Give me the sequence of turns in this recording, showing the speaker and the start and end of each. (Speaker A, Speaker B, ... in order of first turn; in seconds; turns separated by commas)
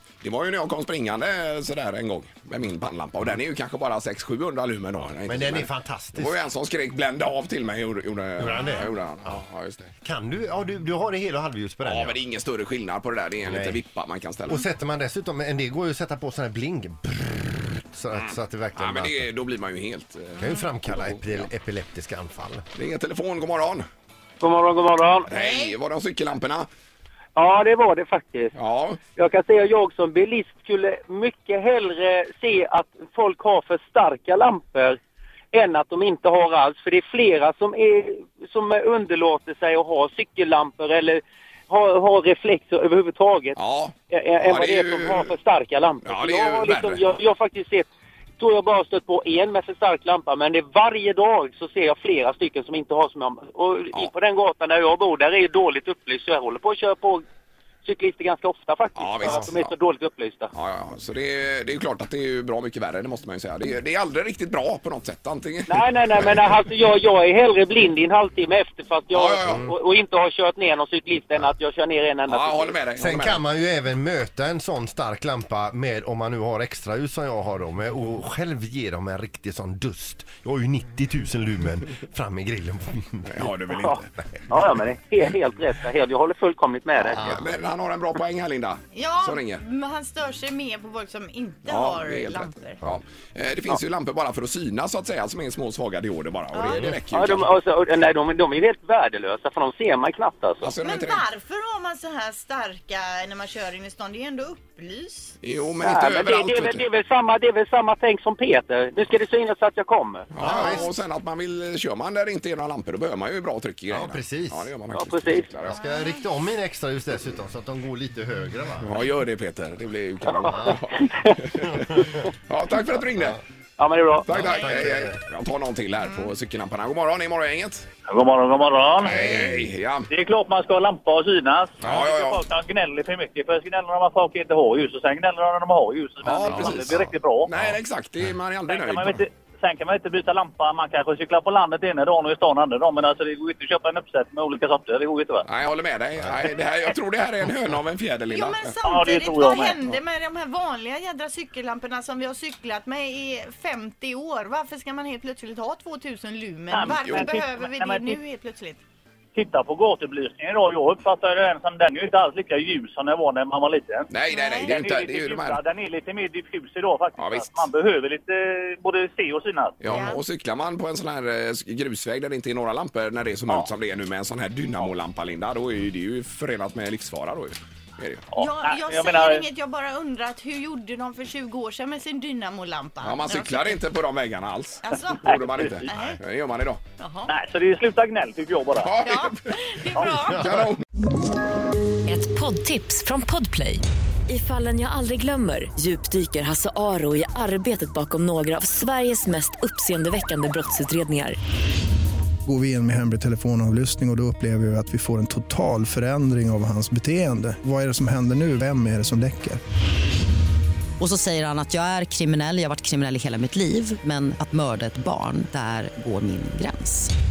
Speaker A: 0.2-9.9, Speaker B: 5.2-6.4, Speaker B: 8.4-9.4, Speaker C: 8.6-8.9, Speaker B: 9.9-12.2, Speaker A: 11.8-14.6, Speaker B: 13.4-13.8, Speaker B: 14.4-19.3, Speaker A: 18.1-21.5, Speaker B: 20.4-22.6, Speaker A: 22.7-23.9, Speaker D: 24.4-25.3, Speaker A: 25.2-26.7, Speaker C: 25.3-25.7, Speaker D: 27.4-28.5, Speaker A: 28.5-29.0, Speaker D: 29.1-35.0, Speaker D: 35.5-43.6, Speaker A: 43.5-45.3, Speaker D: 44.1-47.9, Speaker A: 46.0-47.0, Speaker D: 48.4-57.2, Speaker D: 57.8-60.5, Speaker A: 59.0-59.7, Speaker B: 59.2-59.5, Speaker A: 60.5-66.4, Speaker D: 65.7-72.8, Speaker A: 69.1-69.7, Speaker B: 69.4-69.7, Speaker A: 72.3-73.4, Speaker B: 73.0-83.5, Speaker A: 83.2-84.6, Speaker D: 83.7-87.4, Speaker A: 87.0-89.6, Speaker C: 88.9-92.8, Speaker A: 91.7-97.5, Speaker C: 96.5-96.8, Speaker D: 97.1-100.7, Speaker A: 100.6-101.2, Speaker C: 100.8-105.4, Speaker A: 105.4-106.8, Speaker D: 105.8-110.3, Speaker A: 110.3-115.8, Speaker B: 110.4-110.9, Speaker C: 110.5-110.8, Speaker B: 113.9-114.7, Speaker D: 114.9-115.5, Speaker B: 115.6-119.0, Speaker C: 115.7-116.3, Speaker A: 118.8-123.4, Speaker B: 120.4-120.8, Speaker B: 121.6-122.0, Speaker D: 123.8-124.3, Speaker A: 124.2-127.8, Speaker B: 124.3-125.1, Speaker E: 128.1-137.5, Speaker A: 129.0-130.1, Speaker A: 131.8-132.4, Speaker A: 136.2-139.2, Speaker E: 138.7-145.4, Speaker A: 145.4-148.8, Speaker C: 148.3-158.8, Speaker E: 148.8-149.8, Speaker E: 156.7-158.2, Speaker A: 156.9-157.3, Speaker E: 159.3-164.1, Speaker A: 164.1-165.6, Speaker C: 164.3-164.8, Speaker E: 164.7-169.8, Speaker A: 167.2-167.7, Speaker A: 169.8-178.2, Speaker C: 169.8-170.2, Speaker E: 178.3-179.4, Speaker C: 178.3-183.8, Speaker A: 183.0-186.8, Speaker C: 184.8-186.2, Speaker E: 185.3-185.8, Speaker C: 187.0-187.3, Speaker E: 187.3-189.0, Speaker A: 188.8-189.4, Speaker C: 189.0-190.7, Speaker A: 189.9-190.8, Speaker F: 192.1-201.3, Speaker G: 202.4-209.6, Speaker H: 211.0-217.1